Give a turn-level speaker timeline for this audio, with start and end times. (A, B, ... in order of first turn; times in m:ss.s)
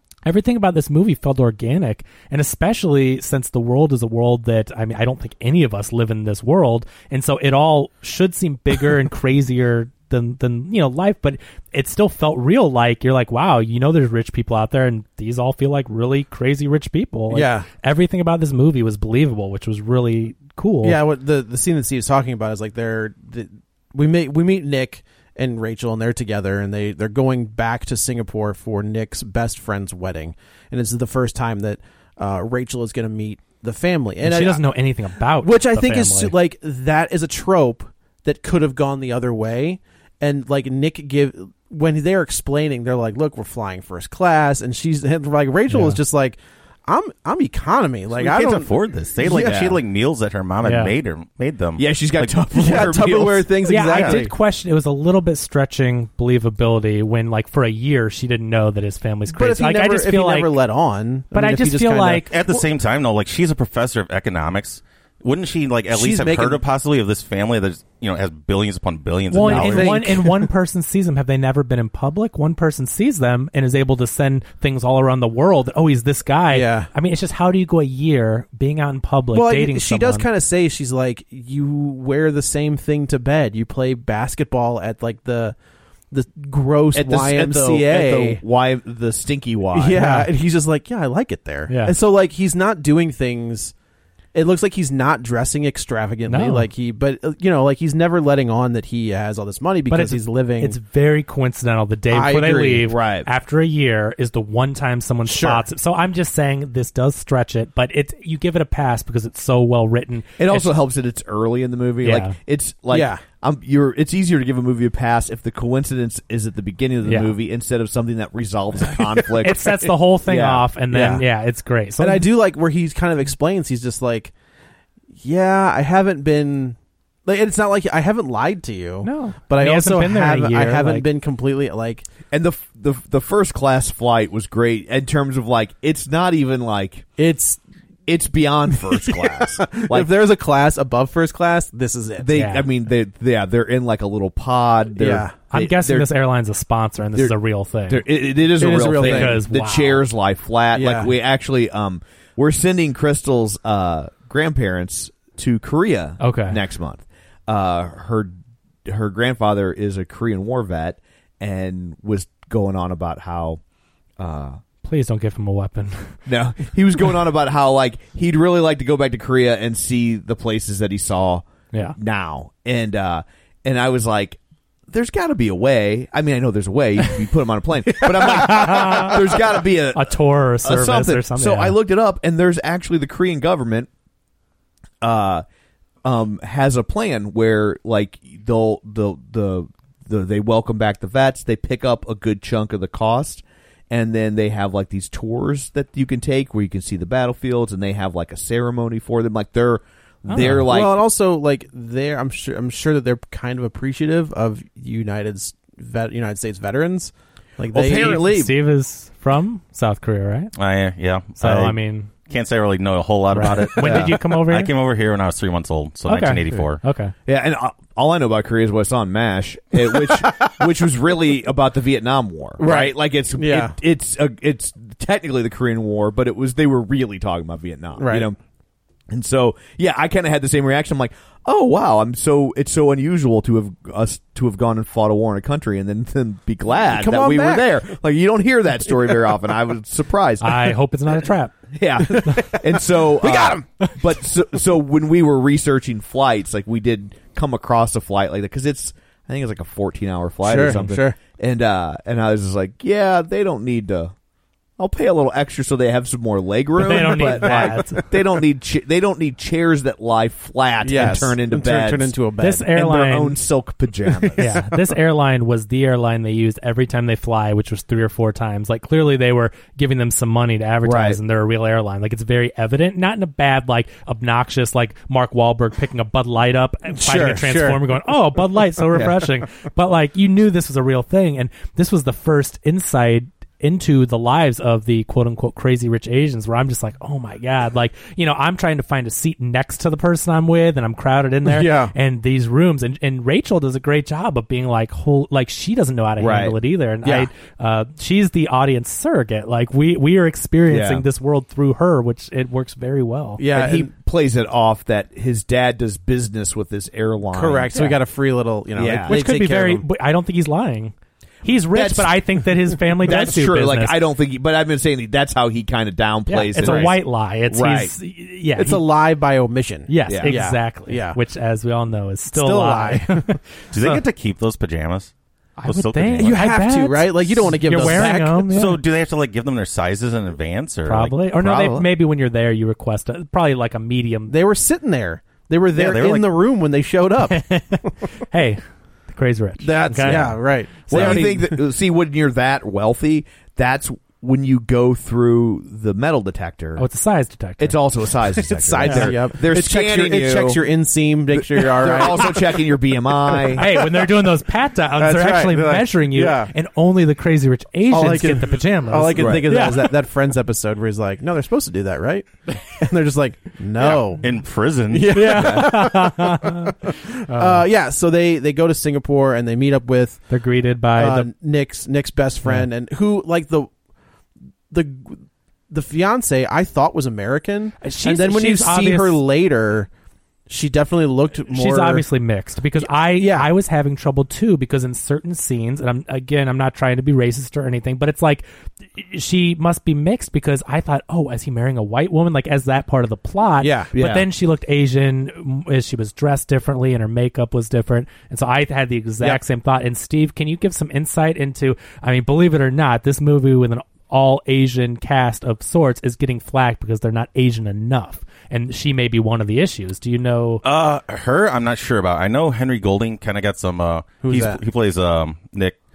0:00.3-0:21.0 A
0:17.3-0:17.7 B
0:20.8-0:34.7 B
0:34.2-0:36.4 A
0:35.4-0:49.8 B
0:45.7-0:46.0 A
0:48.2-0:52.9 C
0:49.4-0:49.8 D
0:50.6-0:50.9 A
0:51.8-0:54.2 D
0:52.5-0:54.3 B
0:53.6-1:00.5 A
0:59.3-1:02.6 B
1:01.3-1:02.4 A
1:02.3-1:10.0 C
1:05.9-1:06.6 B
1:09.3-1:20.3 A
1:09.4-1:10.5 B
1:16.5-1:16.9 B
1:19.3-1:25.6 B
1:26.1-1:28.4 B
1:26.9-1:30.0 D
1:29.7-1:33.7 B
1:29.9-1:30.3 A
1:31.7-1:32.0 A
1:34.3-1:40.8 B
1:36.3-1:36.7 A
1:39.9-1:50.8 A
1:42.1-1:42.9 B
1:42.9-1:43.3 D
1:45.2-1:45.7 B
1:50.4-1:59.6 D
1:52.0-1:52.4 A
1:52.9-1:53.2 B
1:57.0-1:57.3 A
1:59.0-1:59.7 B
1:59.4-2:02.3 A
2:00.3-2:00.7 D
2:00.9-2:01.2 B
2:02.0-2:04.3 B
2:05.2-2:12.0 B
2:09.0-2:11.1 A
2:12.3-2:17.1 D
2:17.2-2:17.6 B
2:18.1-2:20.1 D
2:18.8-2:22.4 B
2:22.2-2:26.1 D
2:22.3-2:22.7 A
2:25.0-2:25.4 B
2:25.5-2:28.1 A
2:27.9-2:38.3 D
2:28.6-2:29.4 B
2:28.9-2:30.0 A
2:30.7-2:31.1 B
2:36.2-2:36.6 A
2:38.9-2:43.6 D
2:44.2-2:44.6 D
2:44.8-2:46.1 A
2:46.3-3:03.9 D
2:58.0-2:59.2 A
2:59.9-3:01.8 A
3:05.0-3:05.4 D
3:06.0-3:21.0 D
3:20.3-3:20.6 A
3:20.5-3:28.5 B
3:27.7-3:28.4 D
3:27.8-3:30.5 A
3:30.6-3:36.8 C
3:31.4-3:32.1 A
3:33.3-3:34.7 A
3:33.8-3:34.2 D
3:36.1-3:37.1 A
3:37.3-3:48.4 D
3:40.0-3:40.4 B
3:42.6-3:43.8 B
3:48.0-3:48.3 B
3:49.1-4:00.7 D
3:56.8-3:57.9 B
4:00.4-4:01.6 A
4:01.7-4:14.1 D
4:02.2-4:03.7 B
4:10.4-4:11.2 B
4:14.8-4:22.2 D
4:16.8-4:18.0 A
4:16.9-4:18.0 B
4:20.8-4:22.7 B
4:22.4-4:23.4 A
4:22.7-4:24.6 D
4:24.1-4:24.7 B
4:24.4-5:03.4 A
4:30.8-4:31.2 D
4:36.9-4:37.8 B
4:38.9-4:39.2 D
4:51.4-4:51.9 B
4:56.2-4:56.6 D
4:57.0-4:57.3 B
5:00.7-5:01.0 D
5:03.4-5:03.9 B
5:03.5-5:07.7 D
5:07.3-5:09.8 B
5:08.7-5:09.2 D
5:09.1-5:14.0 A
5:11.7-5:12.3 D
5:13.0-5:17.9 D
5:16.3-5:18.8 A
5:18.6-5:21.2 B
5:19.9-5:24.0 A
5:20.1-5:20.4 D
5:22.3-5:23.4 B
5:23.7-5:25.1 C
5:25.6-5:28.8 A
5:25.6-5:26.4 C
5:26.2-5:28.6 B
5:27.8-5:31.2 C
5:30.9-5:34.3 A
5:31.4-5:31.9 D
5:34.3-5:37.9 B
5:35.7-5:36.3 C
5:37.3-5:41.3 A
5:39.6-5:41.6 B
5:40.0-5:46.8 D
5:46.8-5:47.8 A
5:47.6-5:50.6 D
5:48.4-5:52.6 B
5:48.8-5:49.1 A
5:51.3-5:53.7 D
5:53.3-5:54.1 B
5:53.6-5:59.9 A
5:55.0-5:56.5 B
5:57.9-6:04.2 B
5:59.2-5:59.5 D
6:03.8-6:05.4 C
6:04.9-6:10.3 B
6:05.1-6:06.7 A
6:05.4-6:05.7 D
6:07.3-6:07.6 A
6:10.3-6:11.3 A
6:11.0-6:13.7 B
6:14.7-6:19.9 B
6:17.8-6:19.2 A
6:20.5-6:22.1 B
6:21.5-6:50.6 A
6:22.8-6:23.5 B
6:33.6-6:33.9 B
6:33.9-6:34.3 D
6:50.6-6:55.8 C
6:54.2-6:54.6 B